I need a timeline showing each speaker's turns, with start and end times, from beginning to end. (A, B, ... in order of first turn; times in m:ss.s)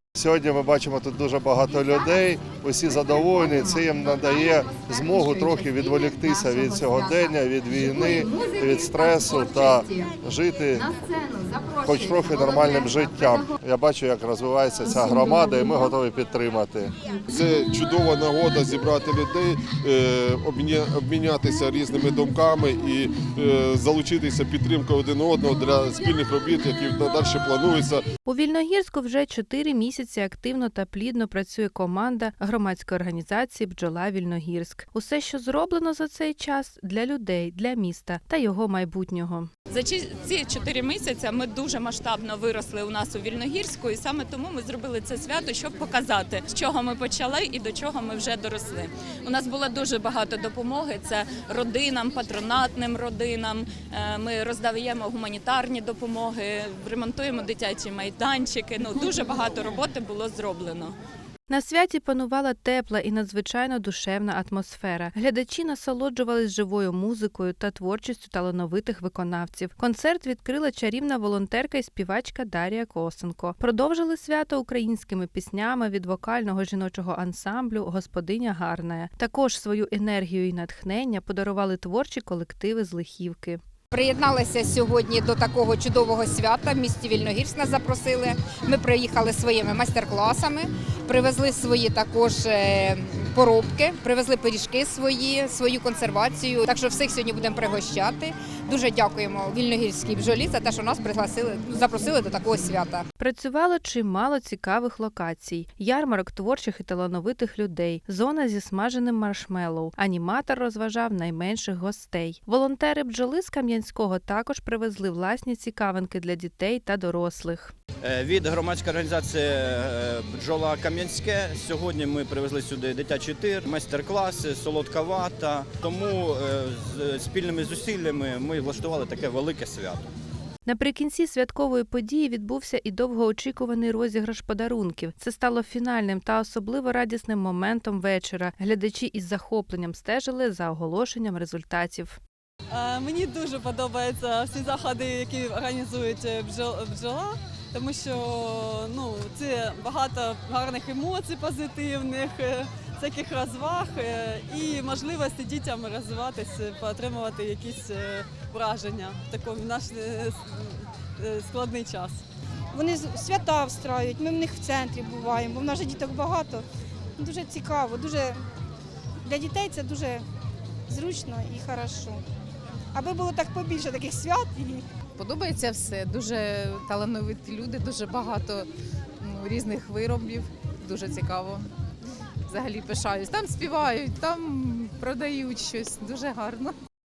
0:00.2-0:10.9 A
0:11.8-0:16.9 A
0:17.3-0:28.0 B
0:28.2-0:39.5 C
0:39.7-1:00.9 D
1:01.5-1:23.6 C
1:23.9-1:43.0 E
1:43.2-1:57.7 C
1:58.0-2:10.0 F
2:10.6-2:22.2 C
2:22.7-2:42.2 G
2:42.7-2:46.6 H
2:47.2-2:48.4 H
2:49.2-2:50.2 H
2:50.9-2:52.2 H
2:52.9-2:54.8 H
2:55.2-2:58.7 I
2:59.2-3:01.7 I
3:02.5-3:06.7 I